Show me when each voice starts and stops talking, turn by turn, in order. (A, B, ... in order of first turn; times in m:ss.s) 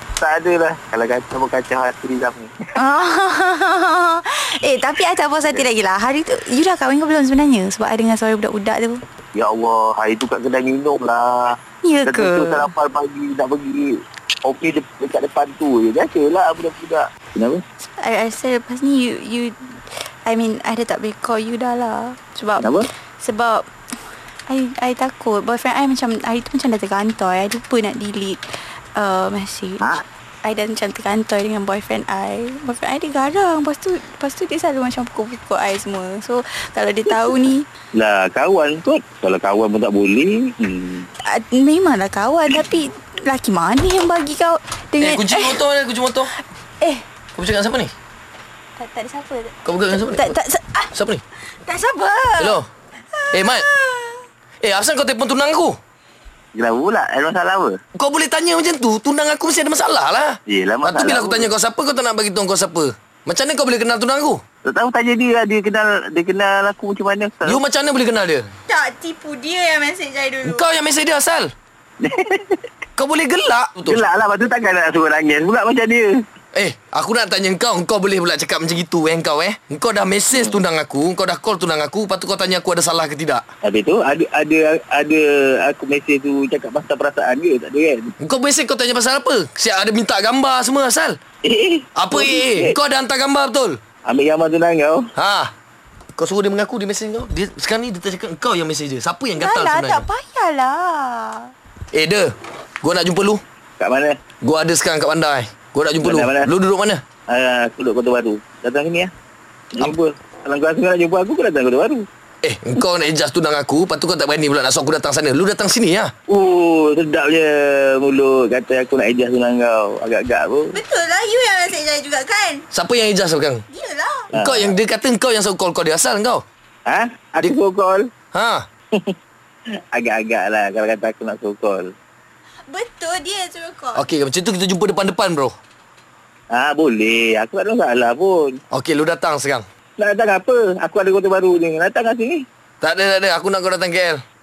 0:00.2-0:02.5 A
0:02.8-0:09.0 B
0:09.4-0:11.6 A
0:11.8-0:12.7 B
0:12.1-0:17.6 A
0:18.0-0:19.7 B
0:20.2-0:23.7 B
0:24.5-0:28.4 B
0:29.0-0:37.7 B
0:38.0-0:41.1 A
0:41.2-0:45.6 B
0:45.0-0:46.3 C
0:47.4-0:47.9 C
0:48.8-0:50.9 B
0:49.6-0:50.4 C
0:50.9-0:51.2 C
0:51.5-0:52.6 B
0:52.4-0:52.7 C
0:53.2-0:54.2 B
0:53.3-0:53.7 C
0:54.6-0:55.8 C
0:56.5-0:57.8 A
0:58.0-1:04.4 C
1:00.5-1:01.5 A
1:04.6-1:07.6 A
1:07.4-1:08.5 C
1:08.7-1:10.6 B
1:10.4-1:11.5 C
1:12.0-1:12.6 A
1:13.0-1:14.0 C
1:13.9-1:16.2 A
1:16.6-1:23.4 C
1:23.7-1:28.1 A
1:28.2-1:31.2 C
1:31.4-1:32.7 A
1:32.0-1:33.8 C
1:34.1-1:35.1 A
1:35.2-1:35.5 C
1:36.2-1:40.0 C
1:39.4-1:41.5 B
1:41.9-1:43.4 C
1:43.8-1:44.2 A
1:44.4-1:47.0 C
1:46.0-1:46.5 A
1:47.3-1:49.1 A
1:49.8-1:52.1 A
1:52.4-1:56.1 C
1:56.3-2:00.8 A
2:00.7-2:02.6 B
2:02.7-2:03.6 C
2:03.7-2:04.3 B
2:04.3-2:04.7 A
2:04.3-2:06.4 C
2:06.9-2:08.1 A
2:08.3-2:08.7 C
2:09.9-2:11.9 A
2:12.7-2:14.0 B
2:14.0-2:15.5 C
2:16.5-2:18.6 A
2:18.7-2:19.6 C
2:20.0-2:22.4 A
2:22.8-2:24.2 C